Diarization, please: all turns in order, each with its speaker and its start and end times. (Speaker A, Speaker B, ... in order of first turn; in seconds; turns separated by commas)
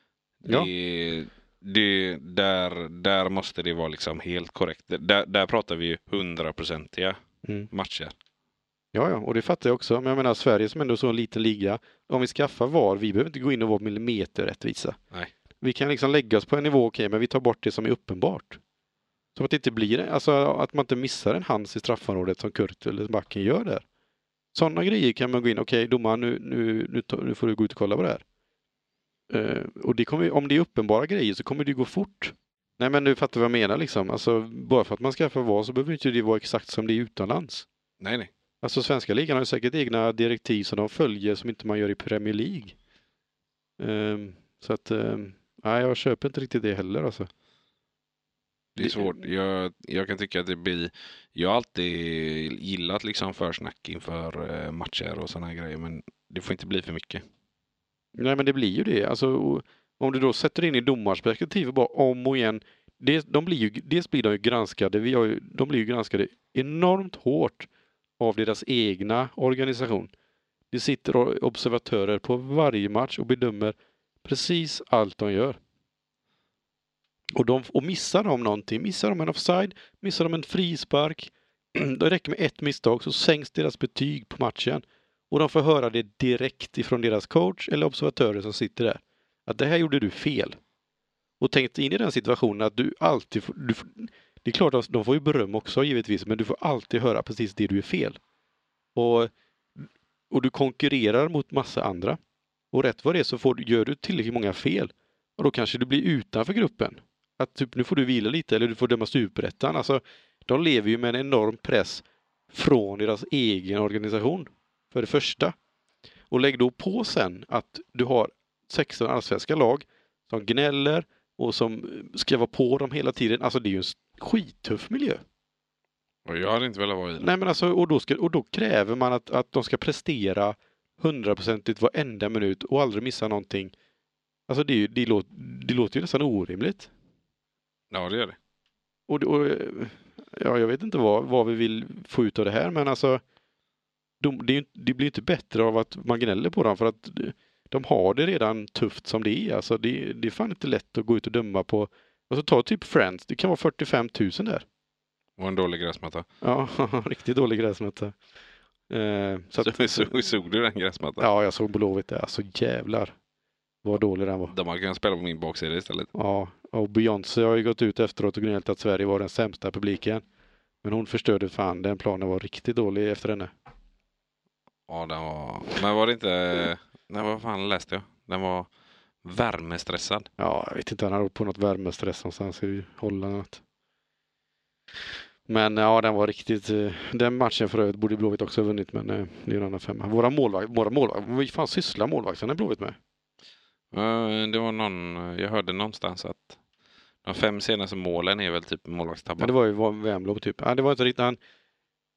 Speaker A: 0.4-7.2, Speaker B: 7.4-7.7, Speaker A: 7.7-8.1, Speaker B: 8.9-15.0, Speaker B: 15.6-18.6, Speaker B: 19.3-23.8, Speaker B: 24.5-28.2, Speaker B: 29.3-37.7, Speaker A: 38.0-38.3, Speaker B: 38.6-42.8, Speaker B: 43.8-47.3, Speaker B: 48.8-49.2, Speaker A: 48.8-57.2, Speaker B: 58.2-70.1, Speaker B: 70.7-75.6, Speaker B: 77.3-90.6, Speaker B: 91.4-98.2, Speaker B: 98.9-102.2, Speaker B: 102.7-115.5, Speaker B: 116.3-125.2, Speaker A: 126.2-127.3, Speaker B: 127.2-133.7, Speaker B: 134.5-136.9, Speaker A: 137.9-138.4, Speaker B: 139.1-143.2, Speaker B: 144.2-154.6, Speaker A: 155.4-156.2, Speaker B: 156.4-158.2, Speaker B: 158.9-160.1, Speaker A: 159.6-161.3, Speaker B: 161.2-163.1, Speaker B: 163.8-164.5, Speaker A: 164.5-166.1, Speaker B: 166.1-170.2, Speaker B: 170.8-173.5, Speaker A: 174.9-178.7, Speaker A: 179.2-180.3, Speaker B: 180.4-183.6, Speaker B: 185.5-193.0, Speaker A: 193.9-196.6, Speaker A: 197.2-199.5, Speaker B: 199.4-201.4